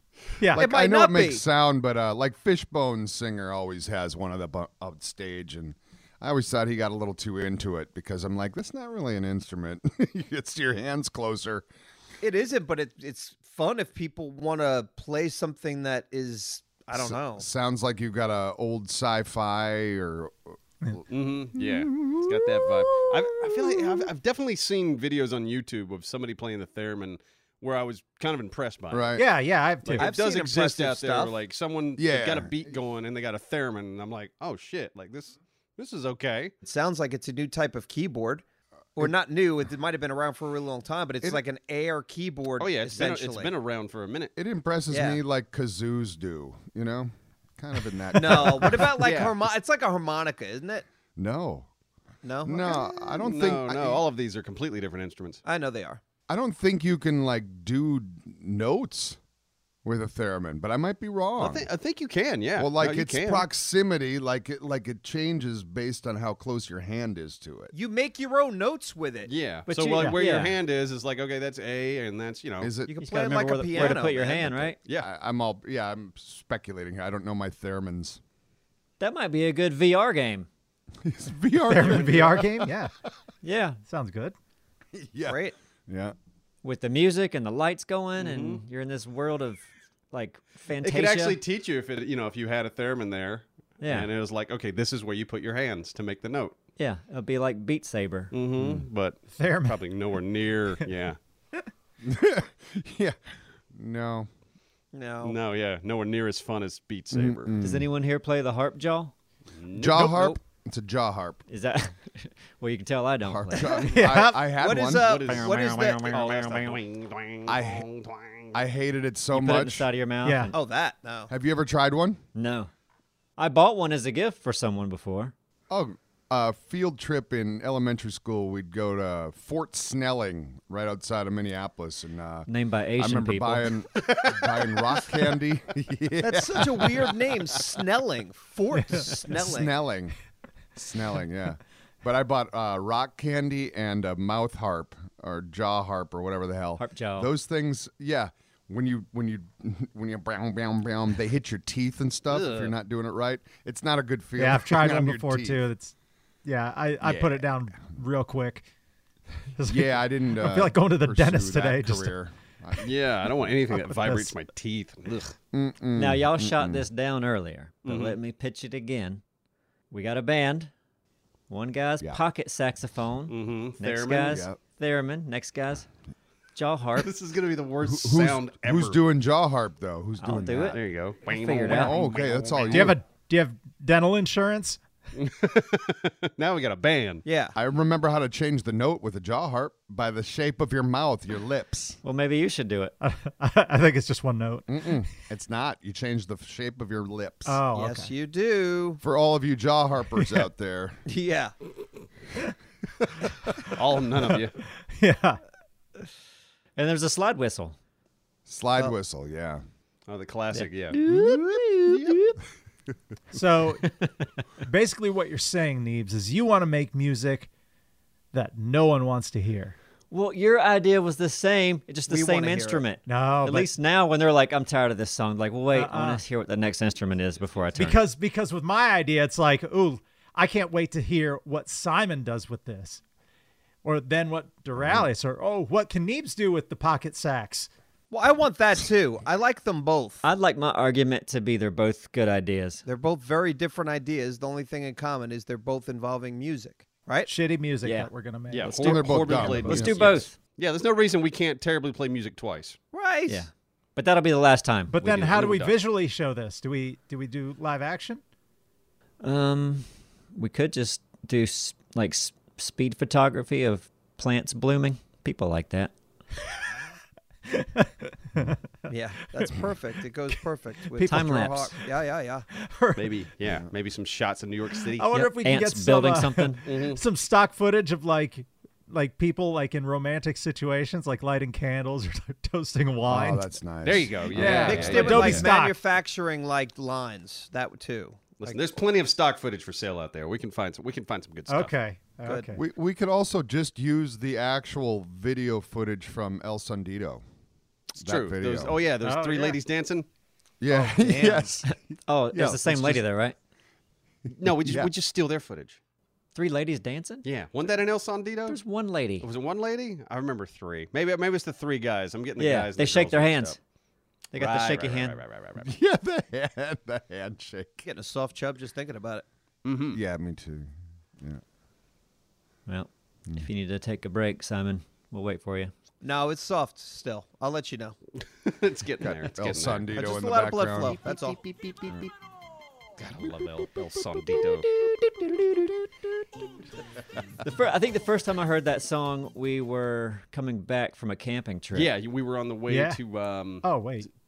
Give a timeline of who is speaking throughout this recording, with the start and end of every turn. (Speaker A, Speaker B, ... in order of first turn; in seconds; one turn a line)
Speaker A: 0.4-0.7
Speaker B: 0.4-11.7
Speaker C: 0.5-1.4
Speaker C: 12.2-17.5
Speaker B: 16.9-20.6
Speaker D: 21.1-29.1
Speaker B: 28.9-29.3
Speaker A: 29.2-30.1
Speaker D: 29.9-36.5
Speaker C: 30.0-31.4
Speaker B: 32.0-32.5
Speaker C: 36.6-38.4
Speaker C: 39.0-43.5
Speaker D: 42.6-44.3
Speaker B: 44.4-49.0
Speaker C: 44.9-45.2
Speaker C: 48.1-50.9
Speaker D: 49.0-49.3
Speaker B: 51.2-51.7
Speaker C: 52.2-53.0
Speaker B: 52.4-54.0
Speaker D: 53.2-55.4
Speaker C: 55.5-56.0
Speaker B: 56.3-59.2
Speaker B: 59.8-61.7
Speaker D: 61.4-63.5
Speaker B: 62.6-67.7
Speaker C: 67.7-69.3
Speaker D: 69.3-72.7
Speaker E: 69.7-70.6
Speaker B: 72.6-72.9
Speaker C: 72.9-74.8
Speaker E: 73.0-74.8
Speaker D: 74.8-75.1
Speaker B: 75.0-78.2
Speaker E: 79.0-80.5
Speaker B: 81.0-82.7
Speaker A: 81.6-82.9
Speaker D: 81.8-82.1
Speaker E: 83.4-83.8
Speaker A: 83.8-84.3
Speaker B: 84.9-86.2
Speaker C: 85.3-85.5
Speaker E: 86.6-91.4
Speaker D: 88.2-88.6
Speaker D: 90.8-96.5
Speaker E: 93.8-94.1
Speaker E: 96.8-98.3
Speaker D: 98.3-101.2
Speaker B: 98.6-98.8
Speaker A: 99.3-99.8
Speaker B: 102.0-103.2
Speaker B: 103.7-104.3
Speaker C: 104.9-105.4
Speaker D: 105.2-107.6
Speaker B: 107.1-107.9
Speaker E: 107.6-109.1
Speaker D: 109.5-110.4
Speaker B: 109.7-111.4
Speaker E: 111.5-113.9
Speaker B: 113.2-115.3
Speaker A: 113.8-114.4
Speaker C: 114.5-116.3
Speaker D: 114.9-118.6
Speaker E: 115.3-116.8
Speaker B: 117.5-117.9
Speaker B: 118.5-119.9
Speaker E: 119.3-120.5
Speaker A: 120.2-120.5
Speaker C: 120.5-121.3
Speaker B: 121.3-122.2
Speaker E: 122.3-122.7
Speaker E: 123.4-125.3
Speaker B: 125.7-137.1
Speaker E: 132.5-133.8
Speaker D: 134.0-134.8
Speaker C: 136.2-139.7
Speaker B: 139.3-140.2
Speaker B: 140.8-155.6
Speaker E: 146.8-147.3
Speaker D: 152.3-152.7
Speaker A: 154.4-158.7
Speaker A: 159.6-162.1
Speaker B: 159.7-162.9
Speaker D: 162.8-165.4
Speaker A: 163.8-164.3
Speaker B: 165.5-166.9
Speaker E: 166.0-169.2
Speaker D: 167.8-168.2
Speaker E: 169.9-170.7
Speaker E: 171.5-175.9
Speaker D: 173.3-174.4
Speaker B: 174.3-174.6
Speaker E: 176.6-177.1
Speaker D: 177.0-179.0
Speaker B: 177.8-180.8
Speaker E: 180.2-182.0
Speaker D: 180.7-183.0
Speaker B: 181.6-183.0
Speaker A: 182.7-184.8
Speaker D: 185.1-187.2
Speaker C: 187.2-187.5
Speaker B: 187.6-192.0
Speaker E: 192.0-192.9
Speaker A: 193.0-194.9
Speaker B: 194.7-197.6
Speaker A: 197.5-198.1
Speaker C: 197.7-199.0
Speaker B: 199.0-201.0
Speaker C: 201.1-201.5
Speaker D: 203.6-204.6
Speaker A: 204.3-205.4
Speaker E: 206.8-207.8
Speaker B: 208.5-209.6
Speaker D: 210.1-211.0
Speaker E: 210.5-212.4
Speaker A: 213.3-213.9
Speaker A: 214.6-217.5
Speaker A: 218.3-219.8
Speaker E: 220.1-228.0
Speaker C: 222.1-222.8
Speaker A: 223.1-223.7
Speaker A: 225.7-226.2
Speaker A: 227.8-233.0
Speaker A: 233.8-237.7
Speaker B: 234.8-235.1
Speaker C: 238.1-240.3
Speaker E: 240.2-242.8
Speaker C: 242.8-247.3
Speaker A: 247.3-248.8
Speaker E: 247.8-248.1
Speaker D: 248.5-252.8
Speaker E: 248.6-250.4
Speaker B: 248.8-250.2
Speaker C: 252.9-253.4
Speaker E: 253.3-255.0
Speaker A: 254.9-258.2
Speaker D: 255.0-255.8
Speaker E: 259.2-265.9
Speaker A: 267.5-268.6
Speaker C: 268.9-272.5
Speaker A: 269.3-269.7
Speaker A: 270.9-271.6
Speaker E: 271.0-271.7
Speaker A: 272.5-273.2
Speaker D: 273.0-275.2
Speaker A: 274.9-283.5
Speaker E: 275.1-276.6
Speaker D: 276.7-277.0
Speaker B: 283.1-285.3
Speaker D: 283.8-285.4
Speaker A: 284.3-285.8
Speaker C: 284.6-288.6
Speaker D: 288.4-291.7
Speaker A: 291.5-292.6
Speaker C: 292.2-292.5
Speaker B: 292.5-297.2
Speaker D: 297.9-300.1
Speaker B: 298.0-298.8
Speaker A: 299.0-299.6
Speaker B: 300.6-301.8
Speaker C: 300.7-301.6
Speaker E: 302.1-303.4
Speaker B: 302.3-303.0
Speaker D: 304.3-305.8
Speaker B: 304.5-304.9
Speaker E: 306.4-307.3
Speaker D: 307.2-308.6
Speaker E: 308.5-309.3
Speaker D: 309.2-313.6
Speaker E: 312.4-313.6
Speaker E: 314.3-315.2
Speaker D: 314.4-315.7
Speaker B: 315.6-317.9
Speaker C: 317.8-319.2
Speaker D: 319.6-320.0
Speaker B: 319.9-321.4
Speaker E: 322.7-325.7
Speaker C: 326.0-328.0
Speaker D: 328.4-329.9
Speaker B: 329.0-331.0
Speaker C: 329.9-331.4
Speaker D: 331.1-332.1
Speaker D: 333.0-334.7
Speaker E: 334.8-335.7
Speaker E: 337.4-341.9
Speaker D: 341.7-343.7
Speaker A: 342.7-343.0
Speaker A: 343.6-344.1